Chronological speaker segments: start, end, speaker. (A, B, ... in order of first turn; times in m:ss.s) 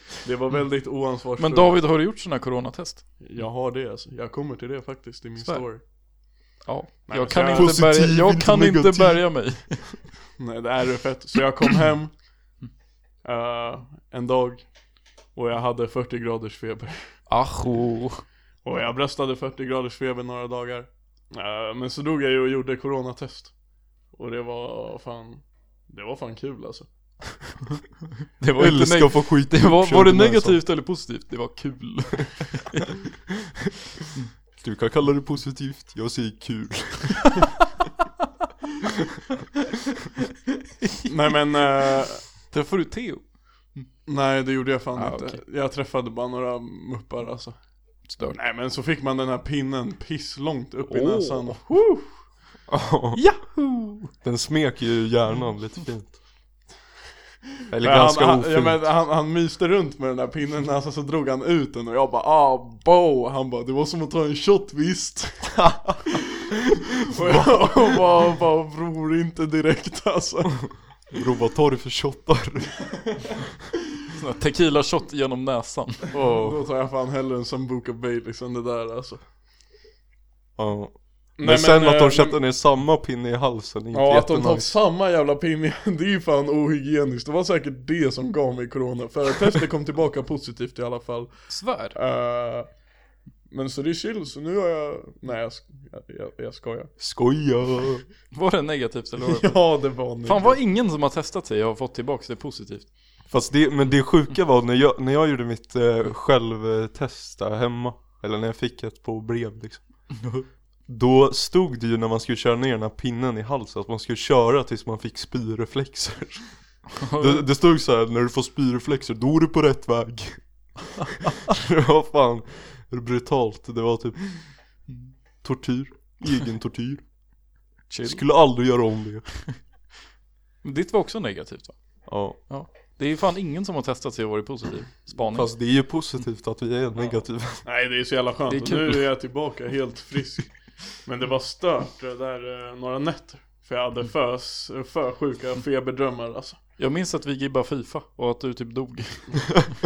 0:00.2-0:01.8 A
0:01.4-0:03.0 B
0:03.2-0:05.8 A
0:05.4-0:05.9 B
0:06.6-0:09.9 B
0:07.1-0:07.8 A
0:07.5-0:09.7 C
0:10.4-0:12.2 A
0:13.2-0:14.6 A
0:15.3-0:17.2 A
0:17.3-0:18.2 B
0:18.6-0:23.5 A
0:24.1-0:26.9 A
0:28.4-0:32.9 B
0:28.6-0:30.6 C
0:34.6-0:37.3 C
0:40.8-0:41.1 B
0:41.0-0:42.3 A
0:42.5-0:43.8 B
0:44.0-0:47.6 A
0:45.0-0:45.4 B
0:48.1-0:48.4 B
0:48.3-0:52.1 A
0:50.9-0:51.6 B
0:52.7-0:53.2 C
0:53.1-0:54.1 B
0:54.2-0:56.2 C
0:57.7-0:58.9 C
0:57.8-1:10.8 A
1:05.6-1:06.0 C
1:11.1-1:12.8 C
1:14.2-1:16.0 B
1:16.1-1:16.6 C
1:16.3-1:19.2 A
1:20.6-1:24.7 C
1:21.4-1:22.4 A
1:23.9-1:32.7 A
1:31.5-1:32.0 B
1:33.5-1:36.9 A
1:37.0-1:38.0 C
1:38.3-1:39.6 B
1:39.2-1:40.6 A
1:40.2-1:42.9 B
1:43.3-1:49.8 C
1:50.2-1:50.4 B
1:50.9-2:00.9 C
1:57.0-1:57.4 B
2:01.4-2:04.5 C
2:05.4-2:07.0 C
2:07.9-2:08.2 B
2:08.0-2:09.2 C
2:10.6-2:11.8 B
2:12.1-2:12.4 C
2:12.3-2:15.5 B
2:15.3-2:17.6 C
2:17.6-2:26.6 A
2:18.5-2:19.1 B
2:26.8-2:29.6 B